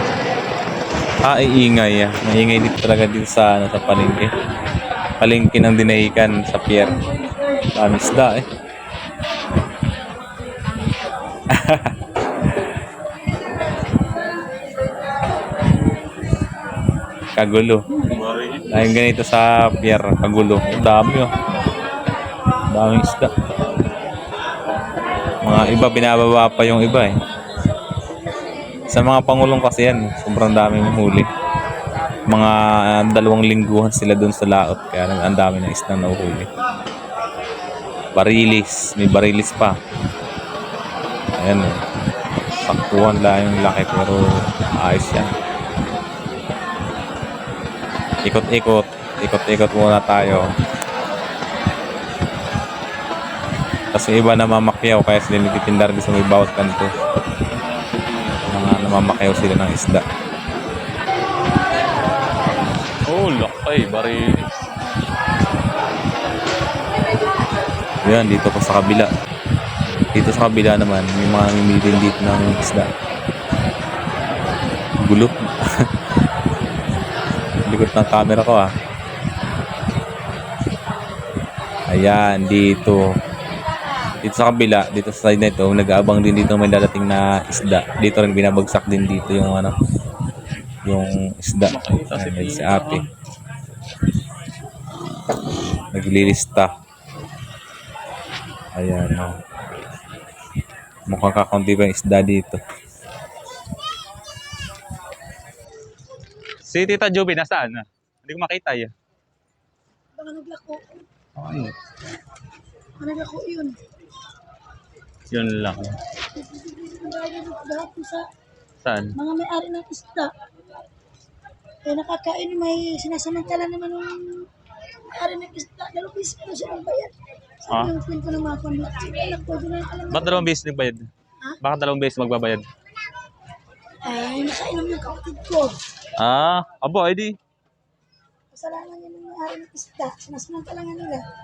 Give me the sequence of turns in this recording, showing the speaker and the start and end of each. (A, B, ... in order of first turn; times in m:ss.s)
0:01.2-0:04.3 A
0:05.2-0:07.0 A
0:07.7-0:08.4 A
0:11.5-0:11.9 A
0:17.4-0:17.8 A
0:18.2-0:18.6 B
0:18.7-0:21.3 A
0:22.7-0:23.3 A
0:25.4-0:27.1 A
0:28.9-0:31.3 A
0:32.3-0:36.5 A
0:38.1-0:39.7 A
0:41.4-0:41.7 A
0:42.6-0:44.2 A
0:44.8-0:45.3 A
0:48.2-0:50.4 A
0:53.9-0:56.9 A
0:58.5-1:00.0 A
1:03.0-1:04.5 B
1:08.0-1:09.1 A
1:10.1-1:12.9 A
1:15.0-1:15.3 A
1:17.7-1:18.7 A
1:21.9-1:23.0 A
1:24.2-1:29.7 A
1:30.8-1:33.0 A
1:31.7-1:33.0 B
1:35.9-1:36.7 A
1:38.7-1:39.3 A
1:41.1-1:42.6 A
1:46.7-1:48.9 B
1:50.2-1:51.0 C
1:51.4-1:51.7 B
1:53.0-1:53.8 C
1:55.3-1:56.0 B
1:56.3-1:58.2 C
1:58.8-1:59.2 B
1:59.2-2:00.3 C
2:01.8-2:04.5 C
2:05.1-2:10.5 C
2:10.1-2:11.1 B
2:11.6-2:12.6 B
2:14.0-2:15.7 C
2:16.2-2:17.3 B
2:18.5-2:21.2 C